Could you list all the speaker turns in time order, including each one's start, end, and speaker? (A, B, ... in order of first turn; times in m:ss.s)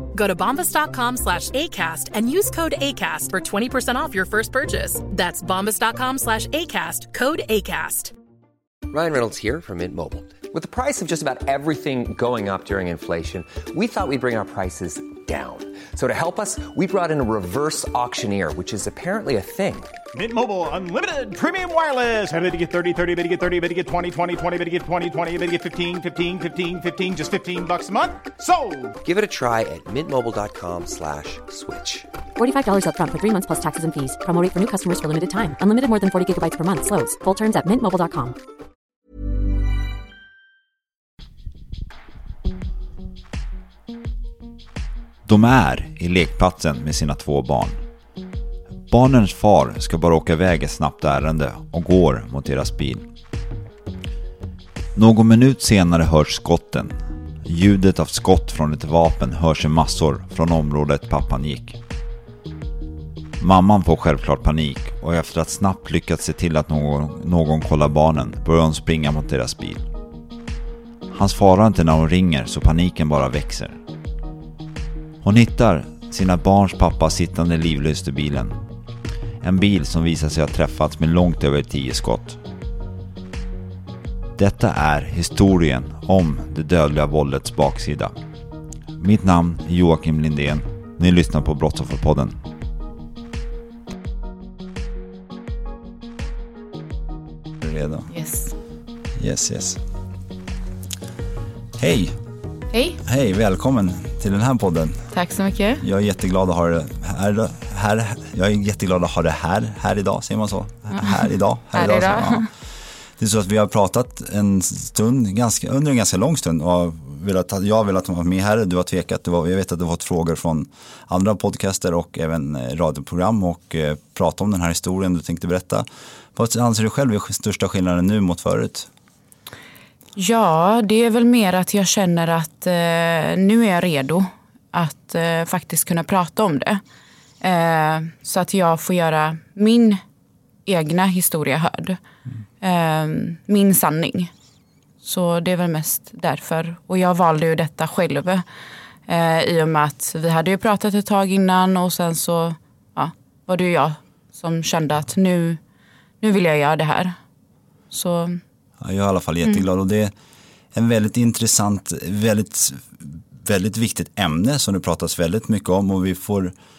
0:00.1-0:08.1 A
0:08.9-0:19.9 B
0:20.1-0:28.9 C
0:29.0-0:32.1 B
0:32.4-0:38.4 D
0:45.2-0:47.8 E
0:48.9-0:53.1 E
0:54.9-1:01.8 E
1:03.4-1:09.9 E
1:11.1-1:13.8 E
1:15.2-1:18.6 E
1:19.4-1:22.4 E
1:24.4-1:28.1 E
1:29.0-1:32.4 E
1:37.6-1:38.1 E
1:38.1-1:38.5 F
1:39.2-1:39.8 E
1:41.8-1:42.2 E
1:42.7-1:43.0 F
1:43.0-1:45.1 E
1:45.1-1:45.8 F
1:45.8-1:52.5 E
1:50.9-1:52.5 F
1:53.2-2:08.9 E
2:10.2-2:16.8 F
2:17.4-2:20.0 F
2:20.6-2:22.0 F
2:22.6-2:24.3 F
2:25.0-2:28.4 F
2:29.1-2:35.6 F
2:36.2-2:37.1 F
2:37.9-2:38.4 F
2:38.8-2:40.1 E
2:40.7-2:46.5 E